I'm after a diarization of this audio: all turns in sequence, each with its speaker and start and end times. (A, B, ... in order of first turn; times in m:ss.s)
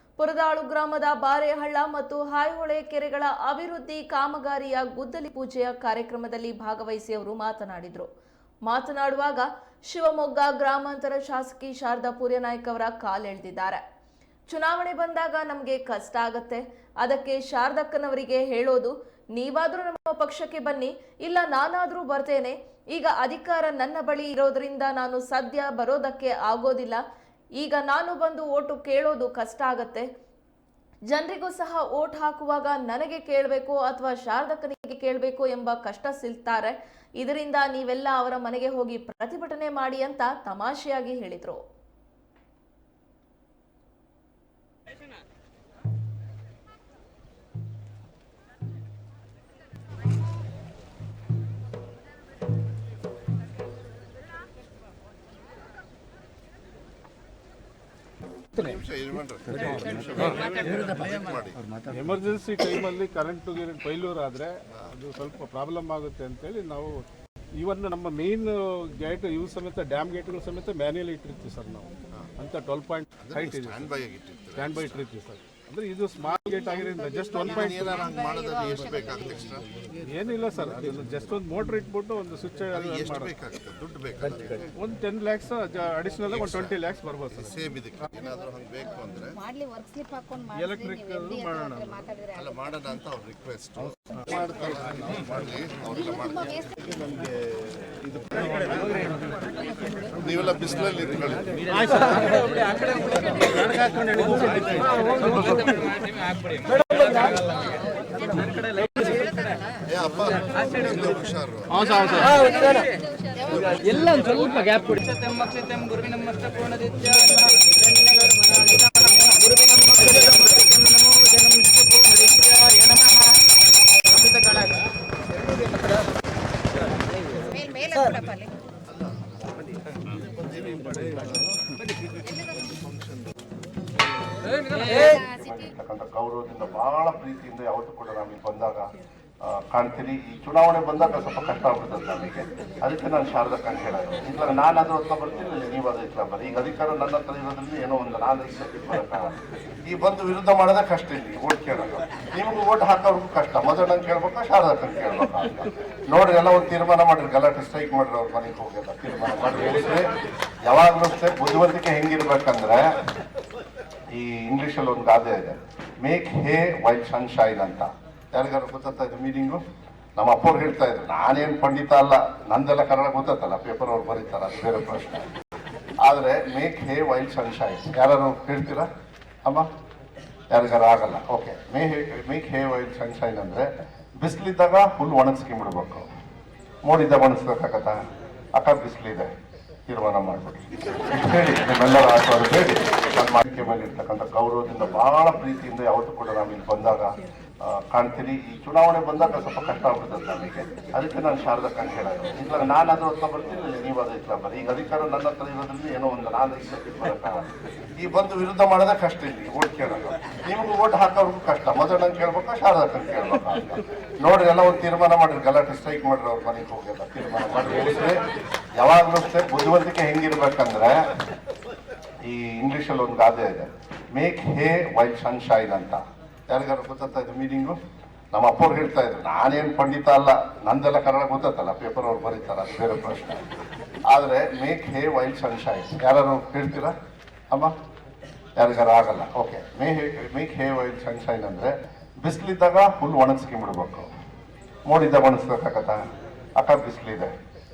0:00.2-0:08.1 A
0:08.6-0:13.8 A
0:14.5-0:27.0 A
0:27.6-0:30.1 A
0:31.1-0:41.6 A
0:58.5-1:01.6 B
0:59.6-0:59.9 C
1:01.9-1:07.0 C
1:07.6-1:13.9 C
1:13.2-1:15.0 B
1:14.6-1:18.0 C
1:17.4-1:19.7 B
1:20.0-1:23.3 C
1:22.7-1:24.7 B
1:24.8-1:27.5 C
1:26.3-1:26.8 B
1:27.3-1:29.4 B
1:29.5-1:30.5 D
1:30.5-1:32.0 C
1:32.3-1:39.2 B
1:40.2-1:41.8 B
1:41.9-1:47.4 C
1:48.7-1:49.2 C
1:49.8-1:51.8 B
1:51.7-1:52.8 C
1:53.4-1:53.8 B
1:53.8-1:55.2 C
2:07.5-2:08.5 D
2:10.2-2:11.4 B
2:14.7-2:18.9 B
2:19.4-2:40.1 B
2:40.6-2:43.0 B
2:44.1-2:49.6 B
2:50.2-2:55.3 B
2:56.0-2:58.9 B
3:00.5-3:06.1 B
3:06.8-3:08.0 B
3:08.6-3:09.3 B
3:09.9-3:38.2 B
3:38.8-3:41.1 B
3:42.2-3:47.8 B
3:48.3-3:53.5 B
3:54.1-3:56.9 B
3:58.6-4:04.1 B
4:04.9-4:06.0 B
4:06.6-4:07.4 B